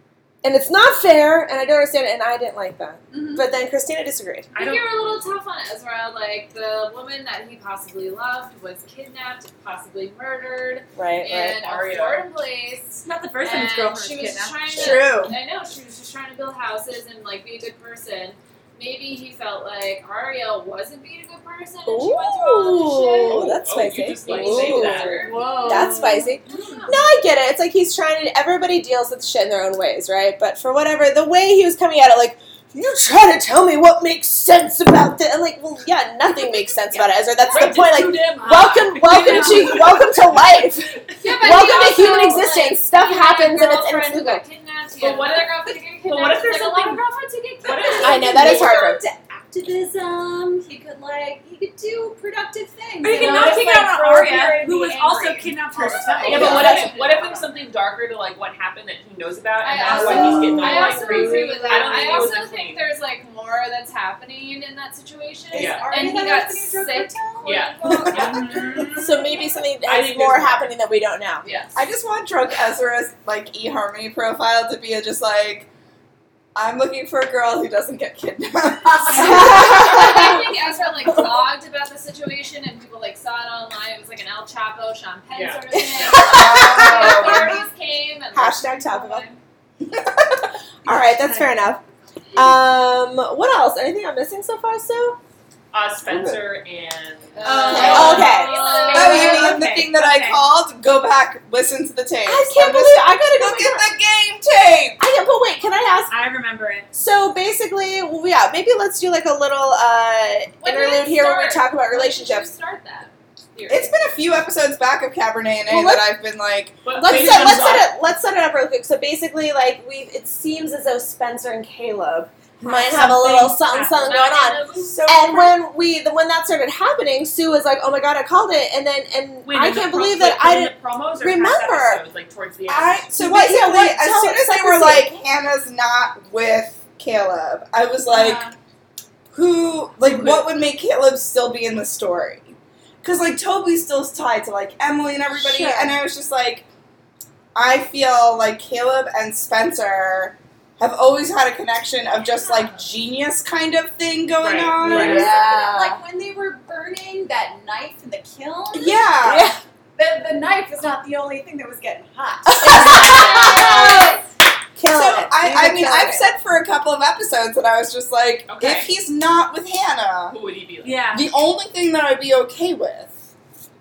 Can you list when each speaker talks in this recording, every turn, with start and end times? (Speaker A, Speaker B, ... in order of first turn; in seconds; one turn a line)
Speaker A: 0.4-4.5
Speaker B: 3.1-3.5
Speaker C: 4.5-5.2
Speaker B: 4.5-23.6
Speaker A: 10.9-11.6
Speaker C: 11.6-12.3
Speaker D: 12.9-15.0
Speaker E: 14.7-15.4
Speaker A: 21.9-44.4
Speaker C: 23.3-25.4
Speaker B: 24.2-27.0
Speaker C: 37.5-40.1
Speaker D: 38.7-40.0
Speaker B: 41.2-48.7
Speaker C: 45.0-45.5
Speaker C: 46.1-46.9
Speaker D: 46.3-47.0
Speaker C: 47.6-48.7
Speaker A: 48.0-49.0
Speaker F: 48.1-56.4
Speaker D: 53.0-56.9
Speaker C: 53.2-54.0
Speaker B: 53.2-53.5
Speaker A: 56.2-56.9
Speaker C: 56.2-62.9
Speaker B: 56.3-57.6
Speaker B: 59.6-68.3
Speaker D: 59.9-62.3
Speaker A: 60.0-60.7
Speaker F: 65.5-67.7
Speaker C: 65.5-65.9
Speaker C: 67.4-69.0
Speaker E: 67.8-68.5
Speaker D: 68.0-69.4
Speaker A: 69.0-71.5
Speaker C: 69.8-70.7
Speaker C: 71.4-71.7
Speaker E: 71.8-75.7
Speaker E: 76.5-80.4
Speaker D: 79.1-79.7
Speaker A: 79.2-80.1
Speaker B: 79.2-89.4
Speaker C: 85.3-86.4
Speaker E: 86.0-87.6
Speaker A: 86.4-87.6
Speaker A: 88.3-89.3
Speaker E: 89.9-90.3
Speaker A: 90.8-91.8
Speaker D: 91.2-91.5
Speaker A: 92.3-95.2
Speaker C: 95.7-98.3
Speaker E: 96.1-96.4
Speaker B: 97.4-99.6
Speaker D: 97.4-100.5
Speaker A: 97.7-98.9
Speaker E: 97.7-98.2
Speaker E: 98.9-105.0
Speaker A: 102.2-103.9
Speaker A: 105.0-106.1
Speaker D: 106.1-106.9
Speaker A: 106.9-112.5
Speaker B: 110.6-113.9
Speaker E: 113.7-117.8
Speaker A: 115.7-116.1
Speaker C: 116.8-117.9
Speaker A: 116.9-132.0
Speaker D: 122.7-124.0
Speaker B: 124.1-125.0
Speaker E: 124.8-125.6
Speaker C: 129.4-133.1
Speaker E: 132.7-138.5
Speaker A: 133.2-135.2
Speaker E: 139.3-146.7
Speaker A: 145.3-146.0
Speaker E: 147.6-155.4
Speaker B: 152.2-152.8
Speaker C: 154.4-155.3
Speaker A: 154.8-156.0
Speaker F: 155.0-159.2
Speaker E: 158.7-159.6
Speaker A: 159.2-159.6
Speaker F: 160.0-163.7
Speaker A: 162.5-164.2
Speaker E: 162.7-163.5
Speaker B: 162.8-164.2
Speaker A: 164.8-166.3
Speaker E: 164.9-170.4
Speaker C: 168.5-168.9
Speaker C: 170.3-171.0
Speaker D: 170.8-171.3
Speaker E: 171.1-173.1